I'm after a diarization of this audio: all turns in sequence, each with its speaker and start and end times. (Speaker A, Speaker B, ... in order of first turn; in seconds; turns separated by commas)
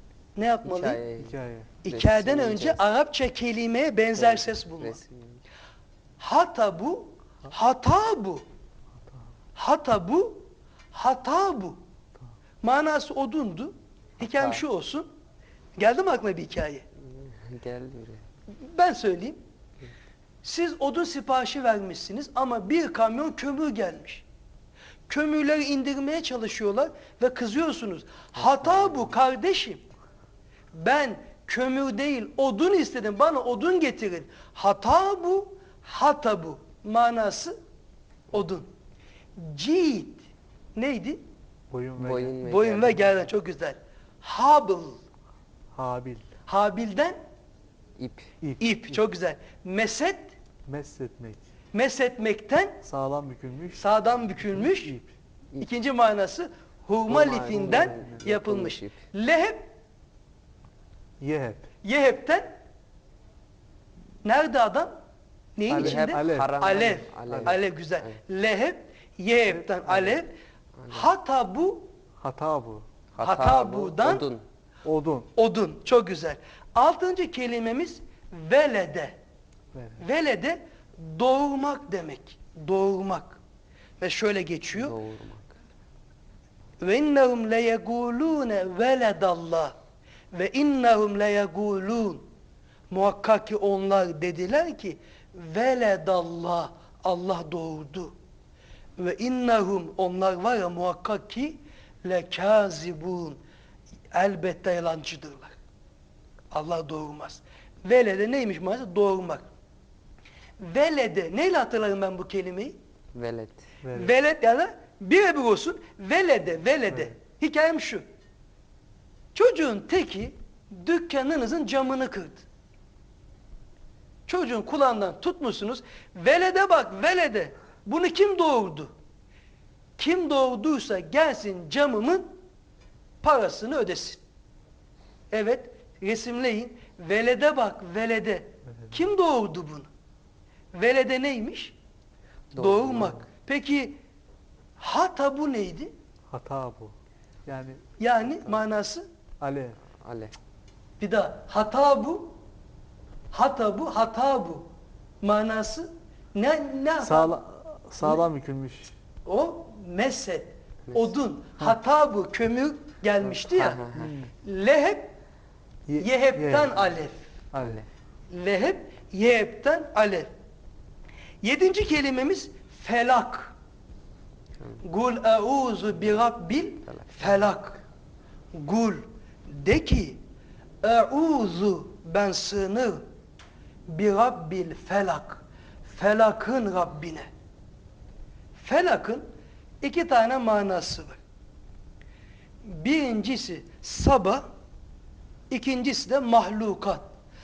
Speaker A: 0.4-1.0, Speaker B: 0.6-2.8, Speaker C: 1.2-1.7, Speaker A: 1.9-5.0, Speaker B: 4.1-5.4, Speaker A: 6.2-8.4, Speaker A: 9.6-11.8, Speaker A: 12.6-15.1, Speaker B: 14.2-14.6, Speaker A: 15.8-16.9, Speaker B: 17.1-18.2, Speaker A: 18.6-19.4, Speaker A: 20.4-24.2, Speaker A: 25.1-29.8, Speaker B: 28.4-29.2, Speaker A: 30.7-37.6, Speaker A: 38.3-38.7, Speaker A: 39.4-40.2, Speaker A: 40.8-41.2, Speaker C: 41.7-42.4, Speaker B: 42.0-43.1, Speaker A: 42.4-45.0, Speaker C: 45.7-46.2, Speaker A: 46.5-47.2, Speaker B: 48.0-48.3, Speaker A: 48.6-50.4, Speaker C: 50.7-51.4, Speaker A: 51.7-52.8, Speaker C: 52.8-53.9, Speaker A: 53.8-55.0, Speaker C: 54.4-55.1, Speaker A: 55.6-59.7, Speaker B: 57.1-59.0, Speaker C: 57.2-58.3, Speaker C: 61.2-61.7, Speaker A: 61.8-62.6, Speaker A: 64.2-64.9, Speaker A: 65.6-70.3, Speaker C: 65.7-66.7, Speaker B: 65.7-68.2, Speaker C: 67.3-67.6, Speaker C: 69.5-70.2, Speaker B: 70.8-71.1, Speaker A: 70.9-71.9, Speaker C: 72.2-72.8, Speaker B: 73.1-74.4, Speaker A: 73.2-74.3, Speaker C: 74.8-75.3, Speaker A: 75.3-79.2, Speaker C: 79.8-80.0, Speaker A: 80.0-83.4, Speaker A: 84.0-85.0, Speaker B: 84.7-85.5, Speaker A: 86.8-89.8, Speaker A: 90.3-92.2, Speaker A: 92.9-98.2, Speaker A: 99.0-103.4, Speaker A: 104.1-105.6, Speaker A: 106.5-109.5, Speaker A: 110.6-112.8, Speaker B: 113.2-113.7, Speaker C: 113.8-114.1, Speaker A: 113.9-118.0, Speaker A: 119.3-122.5, Speaker A: 124.3-128.9, Speaker A: 130.0-132.3, Speaker A: 133.2-134.2, Speaker A: 135.3-139.9, Speaker C: 138.7-139.0, Speaker A: 140.7-141.8, Speaker B: 142.5-143.2, Speaker A: 142.6-144.0, Speaker A: 144.8-145.9, Speaker C: 146.3-146.9, Speaker C: 147.5-148.6, Speaker A: 148.0-149.0, Speaker C: 149.4-149.8, Speaker B: 150.0-150.3, Speaker A: 151.0-152.4, Speaker A: 153.3-154.7, Speaker A: 155.2-157.3, Speaker C: 157.0-158.9, Speaker A: 159.2-163.9, Speaker B: 163.3-164.1, Speaker C: 163.9-164.3, Speaker A: 164.4-165.1, Speaker C: 165.9-166.8, Speaker A: 166.0-167.2, Speaker C: 167.5-167.8, Speaker B: 167.6-167.9, Speaker A: 168.3-170.3, Speaker A: 171.4-173.5, Speaker A: 174.8-177.8, Speaker B: 176.9-177.5, Speaker A: 178.5-180.2, Speaker A: 180.8-183.0, Speaker A: 183.9-187.3, Speaker A: 188.6-189.2, Speaker A: 189.8-191.2, Speaker A: 192.7-194.5, Speaker A: 195.5-197.0